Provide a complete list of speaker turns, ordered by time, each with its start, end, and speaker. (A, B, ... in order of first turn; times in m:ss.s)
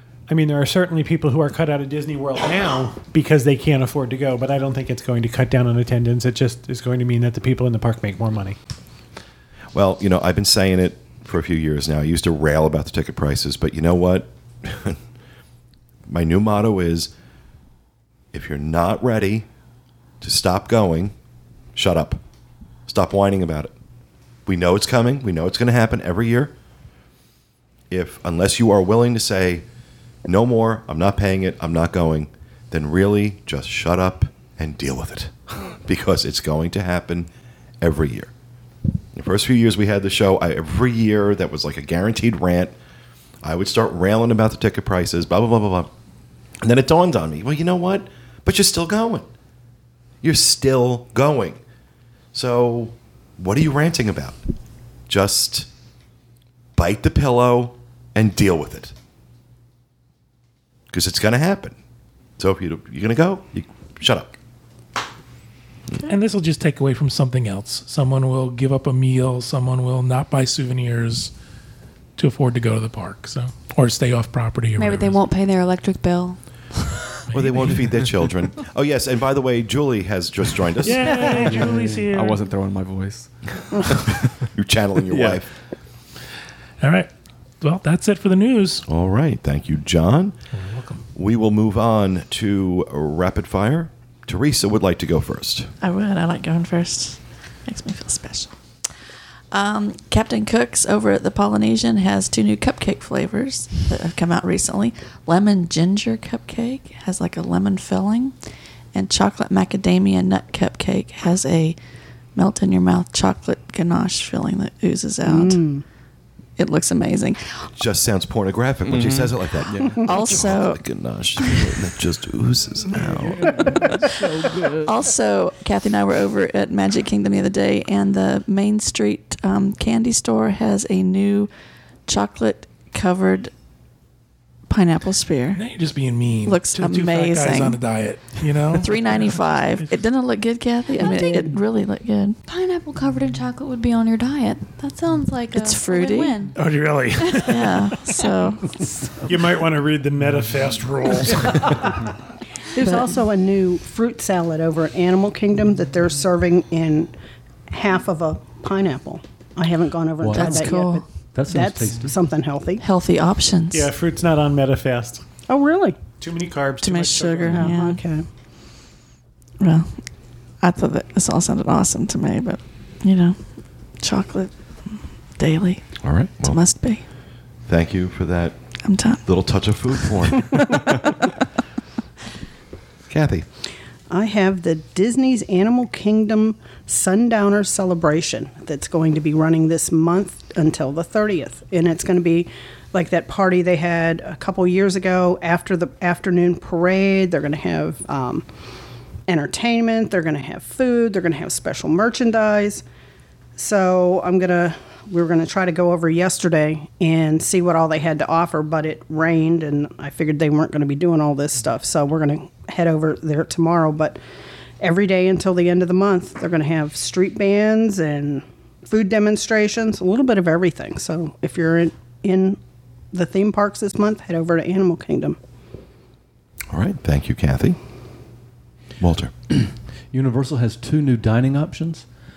0:00.3-0:08.6 A
0:09.7-0:15.0 B
0:16.1-0:17.1 B
0:18.3-0:19.5 B
0:20.2-0:21.1 B
0:21.7-0:22.2 B
0:22.9-0:23.7 B
0:24.4-0:26.5 B
0:27.9-0:29.6 B
0:30.2-0:37.3 B
0:37.8-0:38.3 B
0:39.1-0:42.7 B
0:43.4-0:45.9 B
0:46.6-0:49.3 B
0:50.2-0:51.6 B
0:52.3-0:54.4 B
0:55.1-0:55.7 B
0:56.8-0:58.9 B
1:00.9-1:01.8 B
1:02.4-1:04.3 B
1:06.0-1:11.3 C
1:12.2-1:15.2 C
1:14.8-1:16.4 D
1:17.3-1:17.8 C
1:17.3-1:21.5 B
1:20.8-1:22.4 C
1:21.2-1:24.5 E
1:24.5-1:25.5 B
1:25.1-1:25.4 E
1:26.8-1:27.1 C
1:27.6-1:28.8 C
1:28.9-1:30.4 B
1:30.5-1:31.0 C
1:31.1-1:35.7 B
1:35.8-1:38.6 F
1:39.5-1:48.4 F
1:48.9-1:51.8 F
1:52.3-1:55.6 F
1:55.2-1:55.8 G
1:56.6-1:57.7 F
1:57.8-2:03.9 B
1:58.8-2:00.1 E
1:59.9-2:00.8 F
2:01.4-2:01.7 F
2:02.9-2:05.0 H
2:04.8-2:11.5 F
2:12.0-2:13.5 F
2:14.7-2:15.7 F
2:15.6-2:20.0 C
2:16.4-2:18.0 F
2:18.8-2:22.4 F
2:20.9-2:21.5 D
2:21.0-2:21.4 G
2:22.5-2:26.6 D
2:25.5-2:26.5 F
2:26.5-2:27.9 C
2:27.2-2:27.6 D
2:27.5-2:29.5 F
2:29.2-2:31.9 A
2:32.7-2:37.1 G
2:32.8-2:33.1 F
2:37.7-2:42.8 G
2:40.2-2:42.1 H
2:40.3-2:41.1 F
2:42.8-2:43.9 F
2:43.7-2:45.3 A
2:45.5-2:46.0 G
2:46.2-2:47.8 A
2:46.8-2:48.0 F
2:47.4-2:48.2 G
2:49.6-2:57.0 F
2:56.0-2:57.0 B
2:57.7-3:00.7 B
2:58.8-3:00.1 F
3:03.1-3:03.4 B
3:04.1-3:18.4 G
3:19.3-3:22.8 G
3:23.6-3:34.2 G
3:34.8-3:42.6 G
3:43.1-3:45.4 G
3:46.7-3:47.8 B
3:49.0-3:49.3 B
3:49.5-3:52.1 H